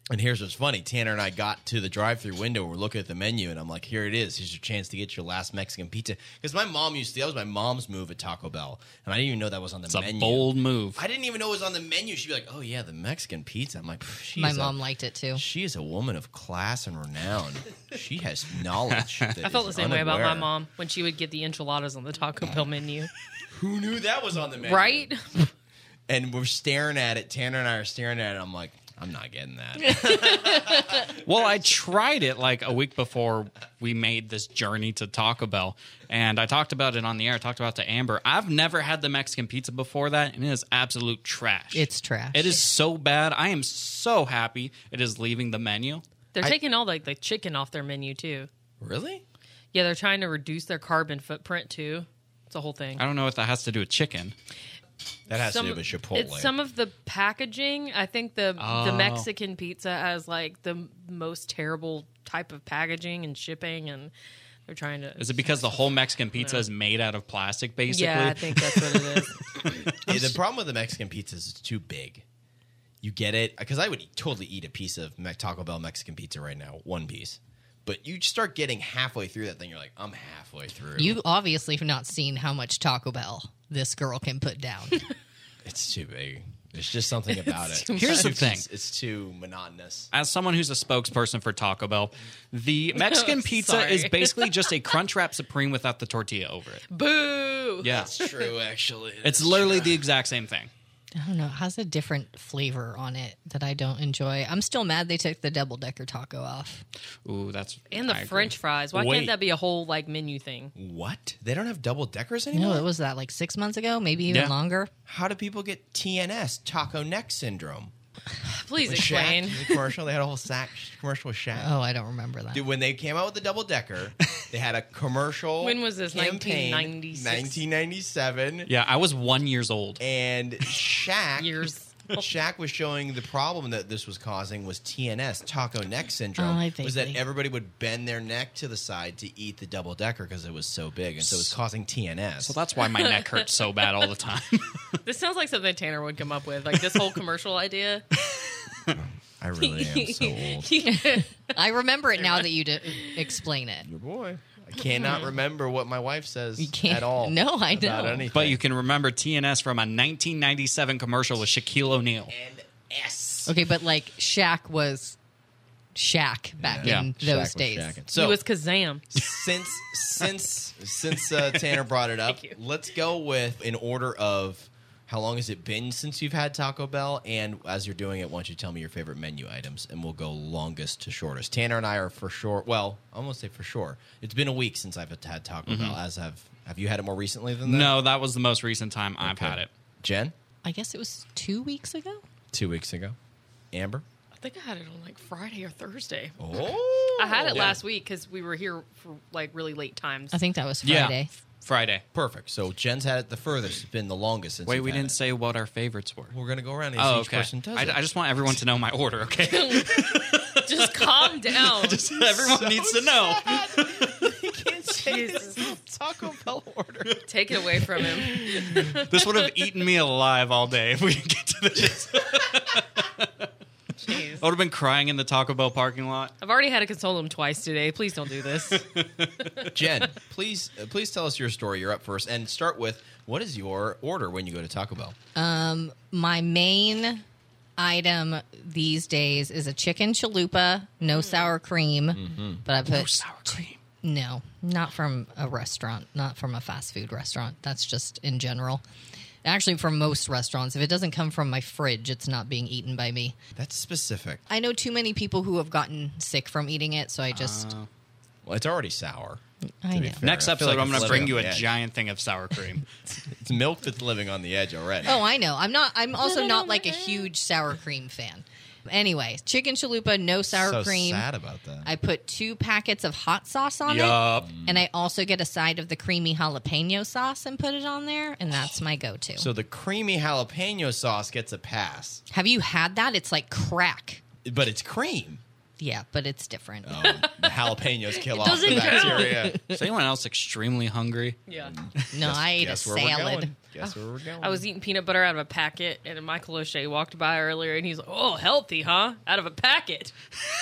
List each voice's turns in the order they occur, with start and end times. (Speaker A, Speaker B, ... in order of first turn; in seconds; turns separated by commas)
Speaker A: 0.1-14.8, Speaker B: 9.9-11.0, Speaker C: 14.4-15.4, Speaker A: 15.3-20.5, Speaker D: 19.4-23.1, Speaker A: 22.4-22.7, Speaker A: 23.5-25.1, Speaker D: 24.6-25.5, Speaker A: 26.1-31.2, Speaker B: 31.1-46.0, Speaker C: 41.7-42.6, Speaker D: 46.4-48.5, Speaker A: 48.8-49.2, Speaker D: 49.7-53.0, Speaker B: 53.0-54.4, Speaker A: 55.3-56.5, Speaker D: 55.3-64.1, Speaker B: 58.6-59.3, Speaker D: 64.7-66.6, Speaker B: 65.2-69.2, Speaker D: 67.9-70.1, Speaker A: 70.0-72.2, Speaker A: 73.0-81.2, Speaker C: 81.0-85.0, Speaker A: 85.7-90.1, Speaker D: 87.5-88.4, Speaker B: 87.9-88.7, Speaker B: 90.1-96.8, Speaker D: 93.0-94.7, Speaker D: 96.9-98.1, Speaker B: 97.8-98.1, Speaker A: 97.8-100.0, Speaker B: 99.2-100.7, Speaker C: 101.1-106.8, Speaker B: 107.2-108.6, Speaker D: 107.9-110.7, Speaker A: 108.9-109.3, Speaker A: 110.8-112.9, Speaker C: 112.5-114.9, Speaker B: 114.3-114.5, Speaker A: 115.1-117.9, Speaker D: 118.4-119.9, Speaker A: 118.8-121.7, Speaker C: 121.5-122.6, Speaker A: 122.5-128.7, Speaker D: 125.6-127.6, Speaker B: 128.7-130.0, Speaker A: 130.0-131.6, Speaker D: 131.4-132.2, Speaker A: 132.2-142.6, Speaker C: 136.4-137.2, Speaker B: 141.2-141.5, Speaker B: 142.4-145.0, Speaker D: 142.8-143.8, Speaker D: 145.1-148.1, Speaker A: 148.9-150.7, Speaker D: 149.6-151.5, Speaker C: 150.8-153.9, Speaker D: 152.9-153.3, Speaker A: 153.8-158.6, Speaker D: 154.9-155.3, Speaker C: 156.6-158.3, Speaker B: 158.3-162.3, Speaker A: 162.3-163.6, Speaker C: 163.4-165.2, Speaker C: 165.9-168.0, Speaker A: 166.6-168.4, Speaker D: 168.1-169.2, Speaker A: 169.1-188.0, Speaker D: 172.3-172.6, Speaker B: 185.7-186.0, Speaker B: 187.7-189.7, Speaker A: 189.2-190.3, Speaker C: 190.6-192.2, Speaker A: 192.5-193.2, Speaker A: 193.7-194.1, Speaker D: 194.3-196.4, Speaker A: 196.4-197.8, Speaker D: 197.2-200.4, Speaker B: 197.5-197.8, Speaker C: 200.3-201.3, Speaker B: 200.8-202.0, Speaker A: 202.1-205.2, Speaker B: 204.7-206.3, Speaker A: 206.3-208.0, Speaker B: 207.0-214.3, Speaker D: 209.5-212.0, Speaker A: 212.1-217.3, Speaker D: 215.1-215.7, Speaker D: 217.3-219.1, Speaker A: 217.9-219.0, Speaker B: 219.1-223.3, Speaker D: 224.0-224.4, Speaker B: 224.4-226.3, Speaker D: 226.4-228.9, Speaker B: 228.8-229.7, Speaker A: 229.7-235.2, Speaker C: 235.3-237.2, Speaker C: 237.8-248.8, Speaker D: 241.2-241.6, Speaker A: 242.2-242.6, Speaker B: 242.9-243.8, Speaker C: 249.4-253.4, Speaker A: 253.6-254.4, Speaker C: 254.5-257.7, Speaker B: 257.3-257.9, Speaker A: 258.4-259.4, Speaker C: 259.8-260.2, Speaker A: 259.9-261.7, Speaker B: 260.2-262.9, Speaker A: 263.2-265.2, Speaker C: 265.0-271.3, Speaker D: 266.2-267.3, Speaker A: 270.5-271.9, Speaker C: 271.9-279.5, Speaker B: 273.9-274.5, Speaker A: 279.4-282.2, Speaker C: 282.3-284.2, Speaker A: 284.4-285.4, Speaker C: 285.8-287.0, Speaker A: 286.8-289.6, Speaker D: 287.0-289.5, Speaker C: 288.4-289.9, Speaker B: 289.6-291.4, Speaker D: 291.5-291.7, Speaker A: 291.6-294.6, Speaker C: 292.1-293.5, Speaker D: 293.8-300.1